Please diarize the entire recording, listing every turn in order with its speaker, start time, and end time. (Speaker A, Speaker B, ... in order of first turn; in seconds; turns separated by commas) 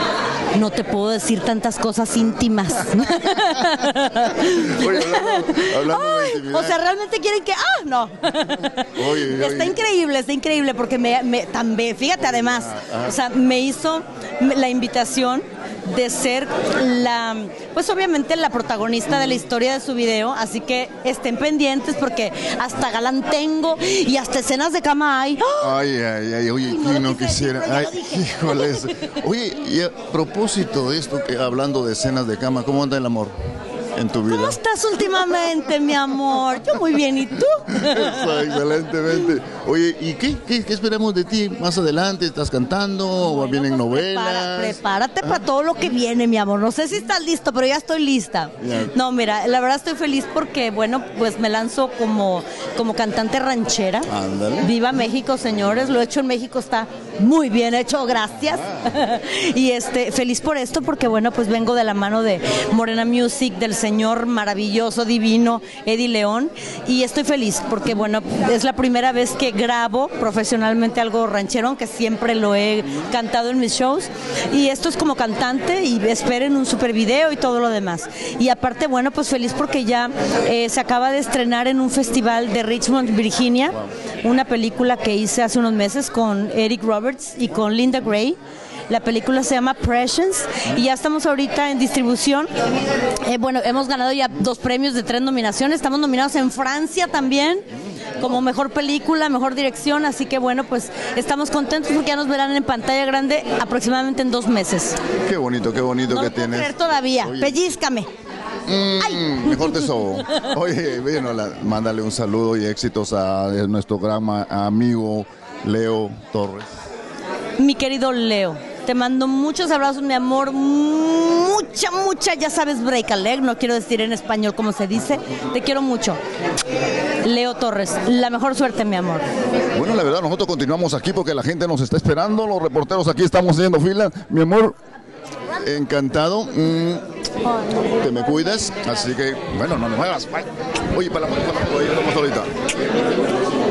Speaker A: 0.5-25.8, Speaker B: 2.9-6.8, Speaker B: 9.0-9.8, Speaker B: 12.2-13.2, Speaker B: 25.6-33.3, Speaker A: 26.6-29.2, Speaker B: 34.0-34.6, Speaker A: 34.3-38.3, Speaker B: 37.7-45.4, Speaker A: 43.2-88.4, Speaker B: 48.6-48.9, Speaker B: 54.1-54.8, Speaker B: 58.5-59.0, Speaker A: 88.9-92.5, Speaker A: 93.2-97.7, Speaker A: 98.2-105.0, Speaker B: 105.3-107.6, Speaker A: 106.1-108.1, Speaker B: 108.7-116.7, Speaker A: 109.1-110.5, Speaker A: 117.6-126.2, Speaker A: 127.2-129.2, Speaker B: 129.7-134.8, Speaker B: 135.6-137.0, Speaker A: 137.6-138.0, Speaker B: 137.9-142.5